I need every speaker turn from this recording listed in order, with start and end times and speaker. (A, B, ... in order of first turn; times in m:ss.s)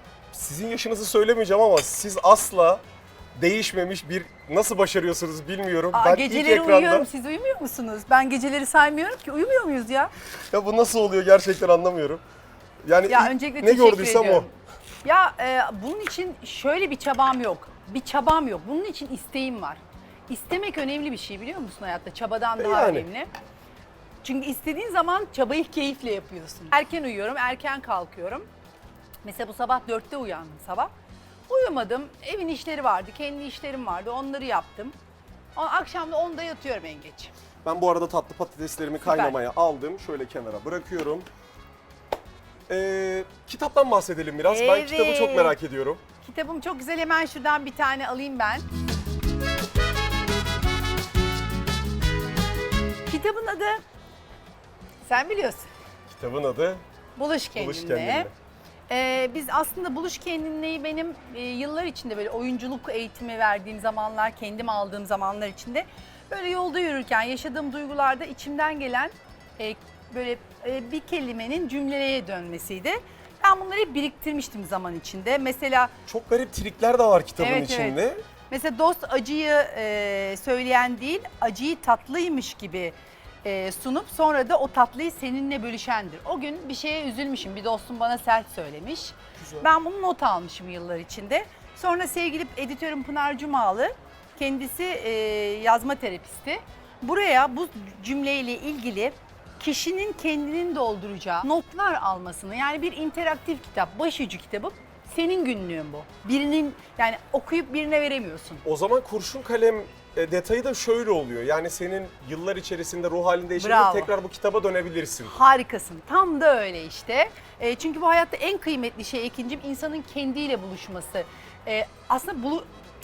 0:00.3-0:02.8 A
0:03.4-0:07.1 A
0:05.9-0:10.1 B
0:10.5-0:12.2 A
0:12.8-0:14.5 A
0:13.1-0:14.5 B
0:15.0-0:23.3 B
0:22.6-0:23.1 A
0:24.2-0:28.5 B
0:29.2-0:30.9 B
0:31.5-0:35.0 B
0:35.6-0:37.3 B
0:37.6-0:41.3 A
0:39.0-0:39.4 B
0:42.7-0:46.0 A
0:44.4-0:45.6 B
0:46.2-0:48.7 B
0:53.1-0:53.8 B
0:55.0-0:55.7 B
0:56.1-0:56.8 A
0:57.2-0:58.3 B
0:57.6-0:58.3 A
0:58.9-1:15.9 B
1:16.1-1:18.2 A
1:17.4-1:48.6 B
1:29.4-1:29.7 A
1:48.6-1:55.4 A
1:53.6-1:54.1 B
1:55.2-2:02.7 B